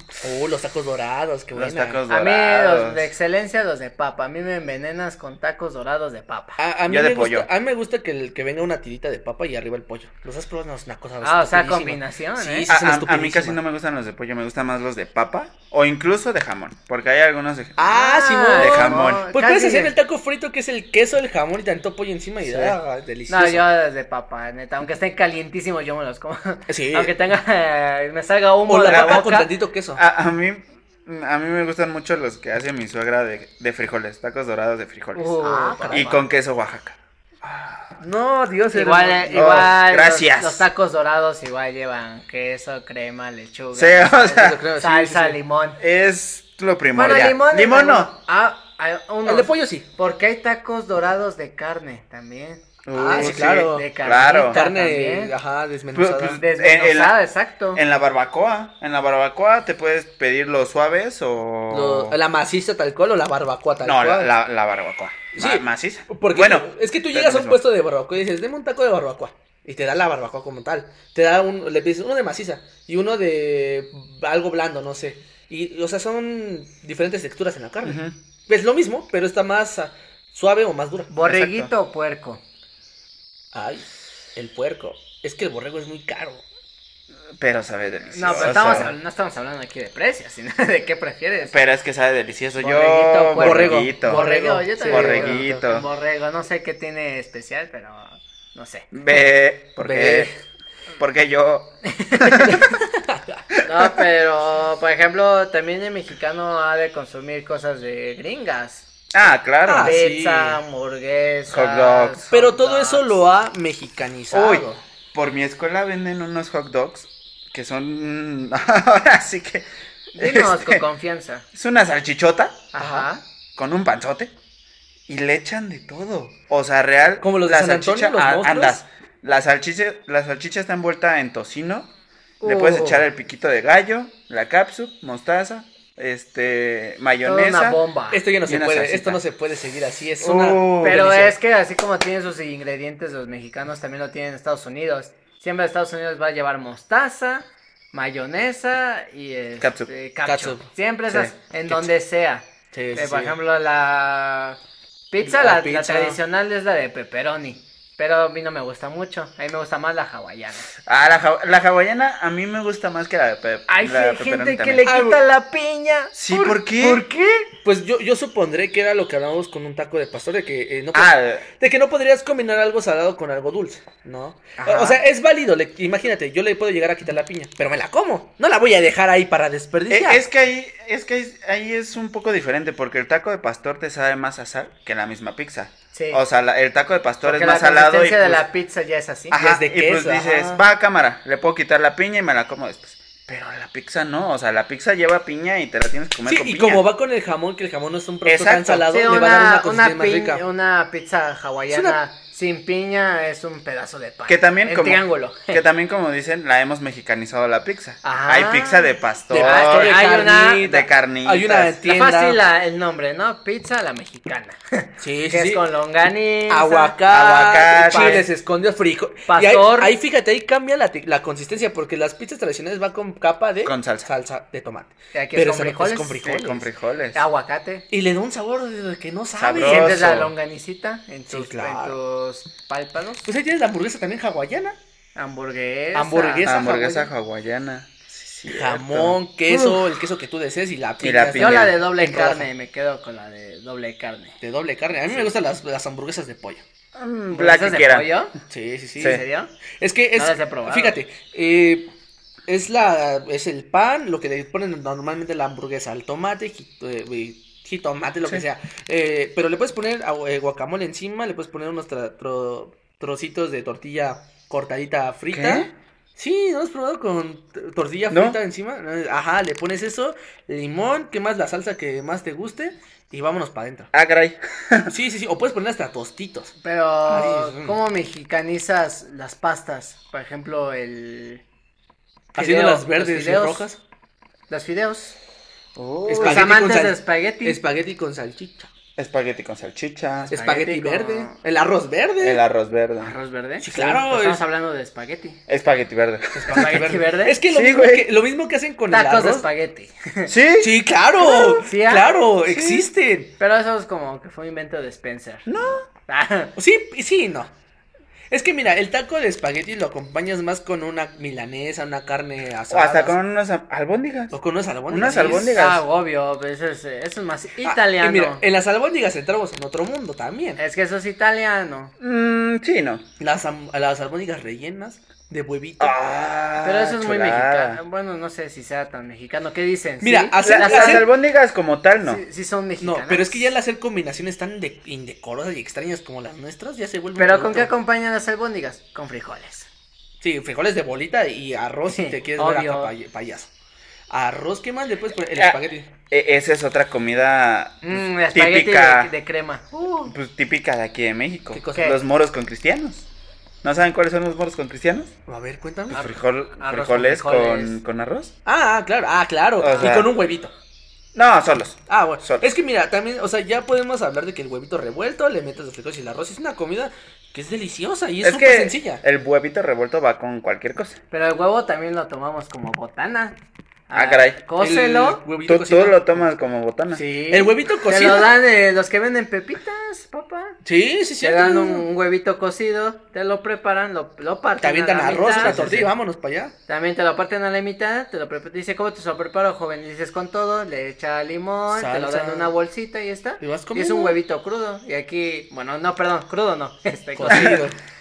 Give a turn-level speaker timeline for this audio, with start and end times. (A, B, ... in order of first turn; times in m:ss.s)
0:00.2-0:02.0 A
0:01.5-0:03.1 B
0:02.1-0:06.6 C
0:06.6-0:13.6 A
0:06.9-0:07.5 B
0:11.2-0:12.7 C
0:12.7-0:17.8 B
0:17.8-0:23.6 A
0:17.9-0:19.9 C
0:18.6-0:19.2 B
0:22.5-0:22.7 C
0:23.3-0:29.5 C
0:26.7-0:27.1 A
0:28.7-0:30.0 A
0:28.9-0:29.2 B
0:30.0-0:37.9 B
0:35.1-0:36.2 C
0:35.4-0:36.1 A
0:38.0-0:39.7 A
0:38.7-0:45.8 C
0:39.3-0:40.7 B
0:43.7-0:44.6 B
0:44.2-0:45.4 A
0:45.8-0:48.1 B
0:46.9-0:55.3 C
0:49.2-0:49.9 A
0:52.8-0:54.6 B
0:52.9-0:53.9 A
0:54.4-0:56.4 A
0:55.9-0:57.2 B
0:56.3-0:57.8 C
0:57.7-1:02.2 B
1:01.7-1:04.3 A
1:03.8-1:07.6 B
1:05.3-1:21.1 A
1:17.8-1:18.1 B
1:21.1-1:22.4 C
1:21.2-1:21.7 B
1:23.5-1:26.4 A
1:27.4-1:28.9 B
1:28.1-1:31.5 C
1:28.2-1:28.9 A
1:31.4-1:34.3 B
1:32.6-1:38.9 C
1:33.4-1:35.6 A
1:34.9-1:35.8 B
1:38.9-1:40.3 B
1:39.8-1:40.3 A
1:41.0-1:42.6 B
1:41.9-1:42.6 C
1:42.5-1:43.4 A
1:43.6-1:48.9 C
1:49.1-1:50.0 B
1:49.6-1:50.6 A
1:49.8-1:53.2 C
1:51.5-1:52.2 B
1:52.3-1:54.8 A
1:54.3-1:59.6 B
2:00.1-2:01.4 C
2:00.2-2:00.8 B
2:01.5-2:02.7 B
2:02.7-2:03.2 C
2:02.8-2:03.1 A
2:03.6-2:04.3 B
2:05.1-2:11.9 B
2:07.2-2:08.8 A
2:12.4-2:13.0 C
2:12.4-2:17.8 B
2:17.2-2:18.2 C
2:18.1-2:21.4 A
2:18.4-2:19.2 B
2:20.2-2:21.1 B
2:20.8-2:34.6 C
2:29.6-2:29.9 B
2:30.2-2:30.7 A
2:32.7-2:33.4 A
2:35.1-2:40.7 C
2:35.2-2:36.2 A
2:40.8-2:44.8 B
2:43.7-2:47.5 C
2:44.8-2:45.2 A
2:46.1-2:47.0 B
2:47.6-3:00.2 A
2:50.9-2:51.4 B
2:54.6-2:55.0 C
2:59.9-3:08.5 B
3:05.9-3:06.2 C
3:07.2-3:09.4 C
3:09.3-3:16.8 B
3:09.3-3:10.6 A
3:16.2-3:20.4 A
3:18.2-3:18.8 B
3:18.8-3:25.6 C
3:21.7-3:22.0 A
3:24.3-3:30.0 B
3:28.0-3:30.7 C
3:29.3-3:32.4 A
3:30.6-3:31.7 B
3:31.8-3:36.9 C
3:35.0-3:35.6 A
3:36.5-3:46.7 A
3:37.1-3:38.2 B
3:37.9-3:38.3 C
3:39.3-3:40.0 C
3:43.6-3:44.1 B
3:45.1-3:46.3 C
3:46.2-3:47.2 B
3:47.1-3:47.8 C
3:47.9-3:50.1 A
3:49.4-3:50.3 B
3:49.6-3:53.3 C
3:51.3-3:52.0 A
3:53.2-3:54.8 A
3:55.2-3:56.5 C
3:55.9-3:57.1 A
3:56.4-3:59.2 B
3:58.5-4:02.5 A
3:59.5-3:59.8 C
4:01.0-4:01.8 B
4:01.4-4:04.4 C
4:04.4-4:06.6 A
4:06.9-4:08.1 B
4:07.3-4:08.3 C
4:08.5-4:09.2 A
4:09.0-4:09.5 C
4:09.8-4:11.9 A
4:10.1-4:11.0 C
4:12.5-4:33.9 A
4:25.3-4:25.7 B
4:28.1-4:28.4 B
4:33.9-4:34.9 B
4:34.9-4:36.5 A
4:36.6-4:41.4 C
4:37.1-4:37.8 A
4:42.3-4:43.6 C
4:42.3-4:43.8 A
4:44.5-4:45.1 C
4:45.8-4:46.6 B
4:46.1-4:47.6 C
4:46.1-4:48.7 A
4:49.0-4:50.4 B
4:50.3-4:52.4 A
4:50.3-4:51.4 C
4:52.2-4:53.1 B
4:53.0-4:55.4 C
4:53.6-4:54.4 A
4:55.5-4:56.9 B
4:56.3-4:59.5 A
4:56.5-4:57.4 C
4:57.5-4:58.1 B
4:58.9-5:00.3 C
5:00.3-5:01.6 B
5:00.6-5:03.3 A
5:01.5-5:02.2 C
5:02.5-5:02.9 B
5:03.4-5:05.5 C
5:05.4-5:05.8 B
5:06.1-5:06.5 C
5:06.6-5:07.5 A
5:08.3-5:13.2 A
5:12.7-5:14.3 B
5:14.3-5:15.6 A
5:14.9-5:15.8 B
5:15.5-5:18.4 C
5:17.6-5:20.6 A
5:20.6-5:21.9 C
5:22.0-5:23.0 B
5:23.2-5:26.0 A
5:25.8-5:27.8 B
5:26.6-5:31.1 C
5:30.0-5:31.1 A
5:30.4-5:32.2 B
5:32.0-5:33.5 C
5:32.8-5:37.7 A
5:37.2-5:39.7 C
5:40.2-5:43.5 A
5:41.9-5:42.9 C
5:44.1-5:45.9 A
5:45.3-5:49.1 B
5:47.8-5:50.1 C
5:50.1-5:53.1 B
5:51.5-5:51.9 A
5:51.7-5:52.0 C
5:53.6-5:55.1 B
5:55.3-5:56.1 A
5:55.9-5:57.8 C
5:55.9-5:58.3 B
5:58.4-6:00.5 A
5:59.6-6:00.1 B
5:59.6-6:00.0 C
6:01.1-6:02.5 B
6:01.9-6:09.0 A
6:08.2-6:11.0 B
6:11.1-6:13.4 C
6:13.9-6:15.2 C
6:13.9-6:14.4 B
6:14.6-6:16.2 A
6:15.4-6:17.0 B
6:16.9-6:20.6 C
6:17.3-6:18.3 A
6:20.6-6:21.9 A
6:21.2-6:25.9 C
6:24.6-6:26.5 A
6:25.4-6:25.8 B
6:26.7-6:37.6 C
6:31.7-6:32.5 A
6:33.4-6:34.2 A
6:37.2-6:37.8 A
6:37.3-6:37.6 B